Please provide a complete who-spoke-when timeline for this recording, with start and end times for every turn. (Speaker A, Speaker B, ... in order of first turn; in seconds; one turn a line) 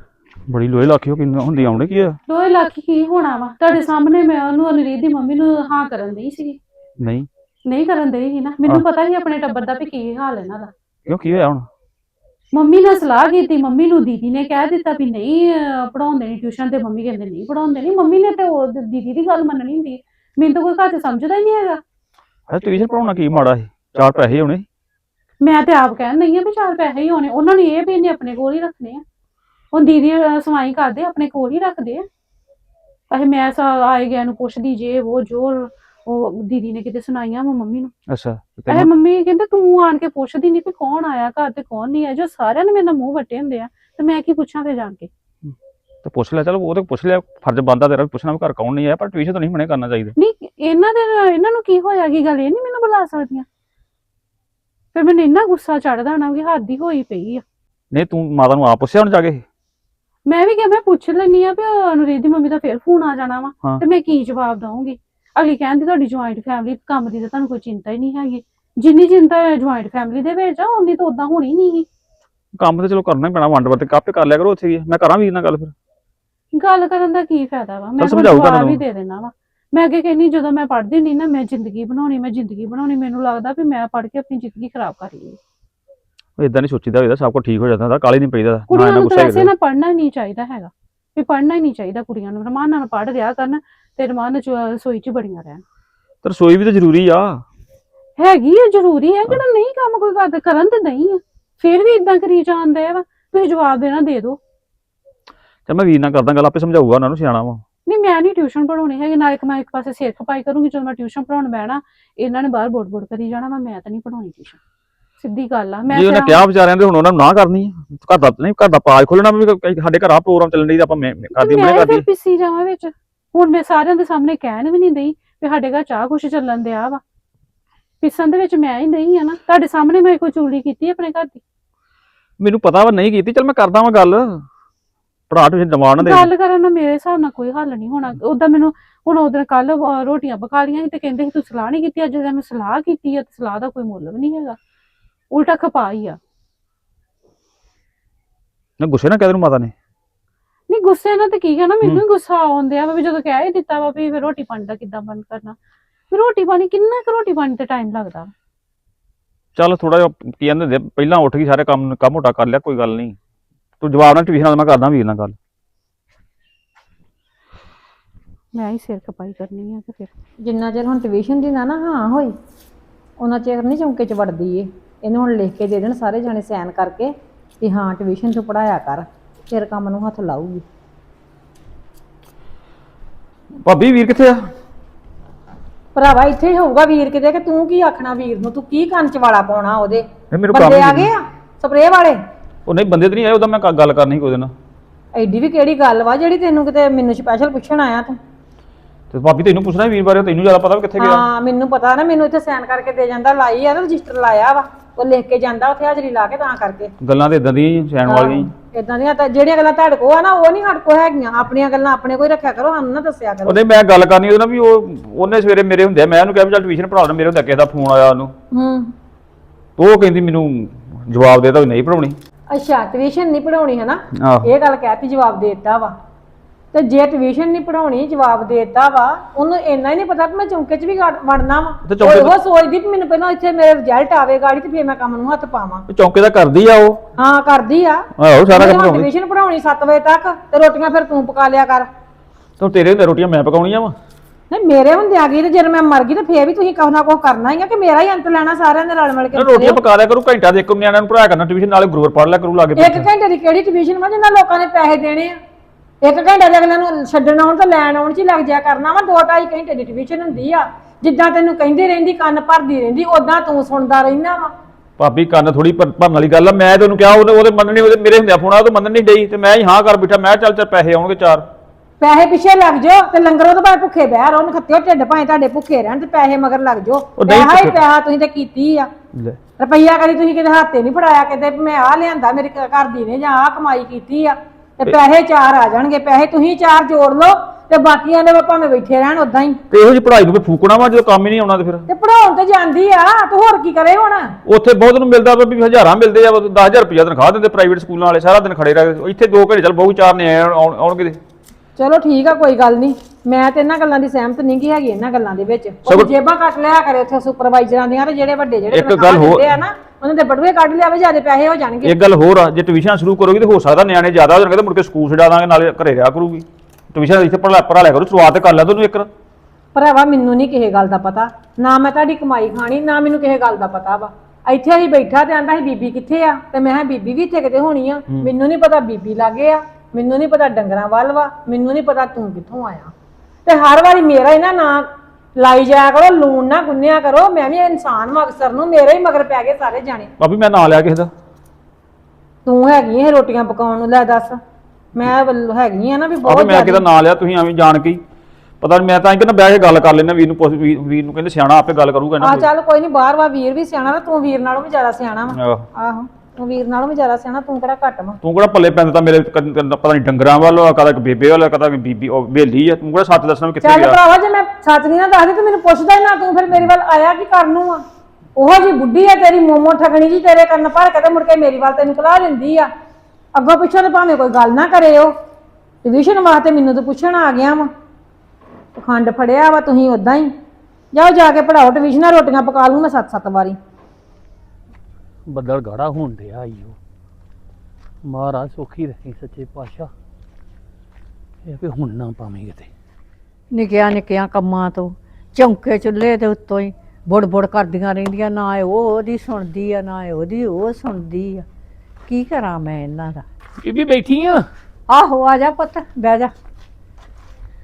Speaker A: 0.5-2.2
Speaker B: 2.3-6.6
Speaker A: 7.0-7.3
Speaker B: 7.7-10.7
Speaker A: 11.1-11.7
Speaker B: 12.5-21.8
Speaker A: 22.5-24.6
Speaker B: 25.4-29.0
Speaker B: 29.7-32.1
Speaker B: 33.1-37.9
Speaker A: 38.1-38.9
Speaker B: 38.7-45.1
Speaker A: 46.0-50.1
Speaker B: 50.2-53.5
Speaker B: 54.9-57.4
Speaker A: 57.9-59.4
Speaker B: 60.3-71.9
Speaker A: 72.6-75.7
Speaker B: 76.5-85.4
Speaker A: 78.0-78.8
Speaker A: 86.4-89.5
Speaker B: 88.7-95.6
Speaker A: 96.2-97.4
Speaker B: 98.2-104.4
Speaker A: 105.7-107.6
Speaker B: 107.9-114.6
Speaker B: 115.2-116.4
Speaker A: 115.9-122.0
Speaker B: 121.3-127.0
Speaker B: 128.0-131.4
Speaker A: 132.4-134.4
Speaker A: 135.3-136.3
Speaker B: 136.0-144.6
Speaker B: 145.3-146.2
Speaker A: 148.8-149.7
Speaker B: 150.7-155.6
Speaker B: 156.1-158.3
Speaker A: 159.6-163.2
Speaker A: 163.8-165.4
Speaker B: 168.5-170.1
Speaker C: 170.4-172.3
Speaker C: 173.2-180.6
Speaker A: 183.6-184.5
Speaker C: 185.9-192.2
Speaker A: 190.3-191.1
Speaker A: 192.7-194.5
Speaker C: 195.2-198.2
Speaker A: 199.1-201.3
Speaker C: 201.0-206.9
Speaker A: 207.0-208.5
Speaker C: 208.1-213.6
Speaker A: 213.5-218.3
Speaker C: 218.5-218.9
Speaker A: 219.8-222.2
Speaker C: 222.5-225.9
Speaker A: 224.2-224.5
Speaker C: 226.7-235.9
Speaker A: 231.9-232.3
Speaker A: 235.9-237.0
Speaker C: 237.2-241.9
Speaker A: 238.2-239.1
Speaker A: 242.6-243.9
Speaker C: 244.5-249.8
Speaker A: 249.3-253.1
Speaker C: 252.8-255.4
Speaker C: 256.0-264.5
Speaker A: 265.0-271.5
Speaker C: 272.0-278.9
Speaker A: 277.2-277.8
Speaker C: 279.6-289.6
Speaker A: 289.7-291.9
Speaker C: 291.9-294.4
Speaker A: 294.5-301.2
Speaker C: 301.8-312.0
Speaker A: 305.9-306.1
Speaker A: 308.7-309.5
Speaker A: 311.8-319.1
Speaker C: 319.7-332.9
Speaker C: 333.4-340.1
Speaker A: 340.2-341.1
Speaker C: 342.4-344.4
Speaker C: 344.9-346.9
Speaker A: 346.2-348.0
Speaker A: 348.6-352.5
Speaker C: 352.2-358.2
Speaker A: 355.3-355.7
Speaker A: 358.2-364.0
Speaker C: 363.6-367.8
Speaker C: 368.4-372.7
Speaker C: 373.3-375.1
Speaker C: 375.8-377.7
Speaker C: 378.8-380.3
Speaker C: 380.9-383.6
Speaker D: 385.3-386.8
Speaker D: 388.1-389.9
Speaker D: 391.4-392.7
Speaker E: 393.5-401.5
Speaker E: 402.1-403.2
Speaker D: 403.6-404.5
Speaker E: 404.9-406.3